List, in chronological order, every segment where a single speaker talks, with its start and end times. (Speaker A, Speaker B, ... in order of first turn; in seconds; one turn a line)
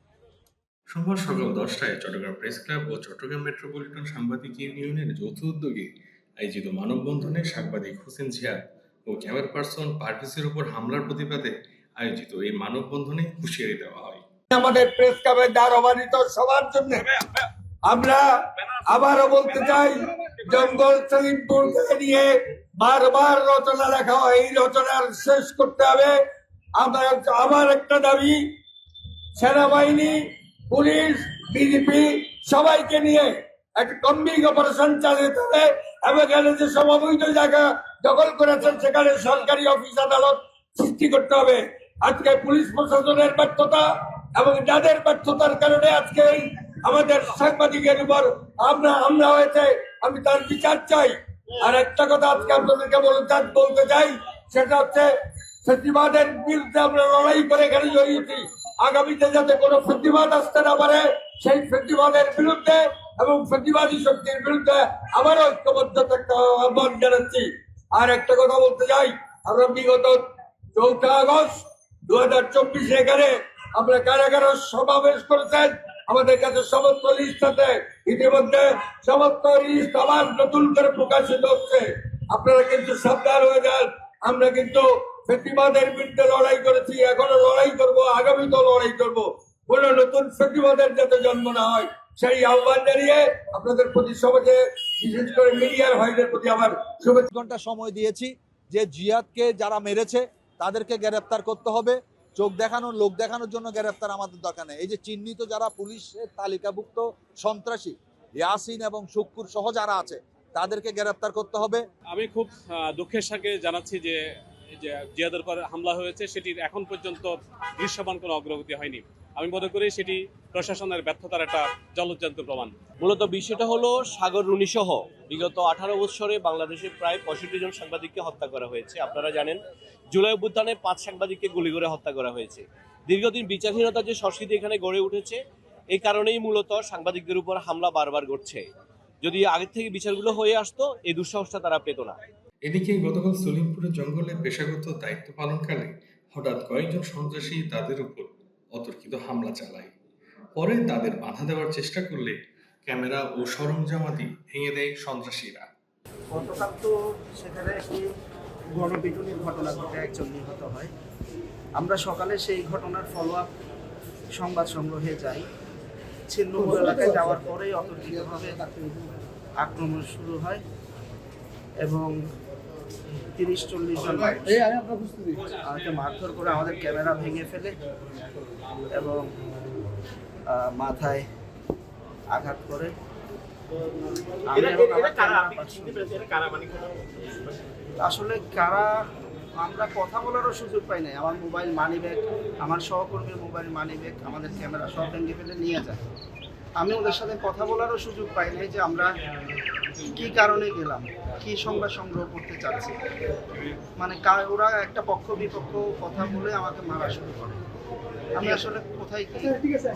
Speaker A: 0.9-14.2
Speaker B: 14.5-26.2
Speaker B: 26.7-28.4
Speaker B: 29.4-55.1
Speaker B: 55.6-70.2
Speaker B: 70.7-97.3
Speaker C: 97.3-111.8
Speaker D: 112.1-114.2
Speaker D: 114.8-122.7
Speaker E: 123.0-135.4
Speaker E: 135.9-138.6
Speaker E: 139.2-142.2
Speaker A: 142.6-149.9
Speaker A: 150.6-155.7
Speaker F: 156.3-158.1
Speaker F: 158.7-160.9
Speaker F: 161.8-163.5
Speaker F: 164.4-165.4
Speaker F: 166.3-168.7
Speaker F: 169.6-170.6
Speaker F: 171.8-172.1
Speaker F: 173.3-174.7
Speaker F: 175.6-177.8
Speaker F: 178.9-179.3
Speaker F: 180.5-181.2
Speaker F: 182.3-182.9
Speaker F: 184.4-186.3
Speaker A: 186.1-186.9
Speaker F: 188.0-188.9
Speaker F: 189.6-196.0
Speaker F: 196.8-199.1
Speaker F: 200.1-202.9
Speaker F: 204.0-207.6
Speaker F: 208.3-209.6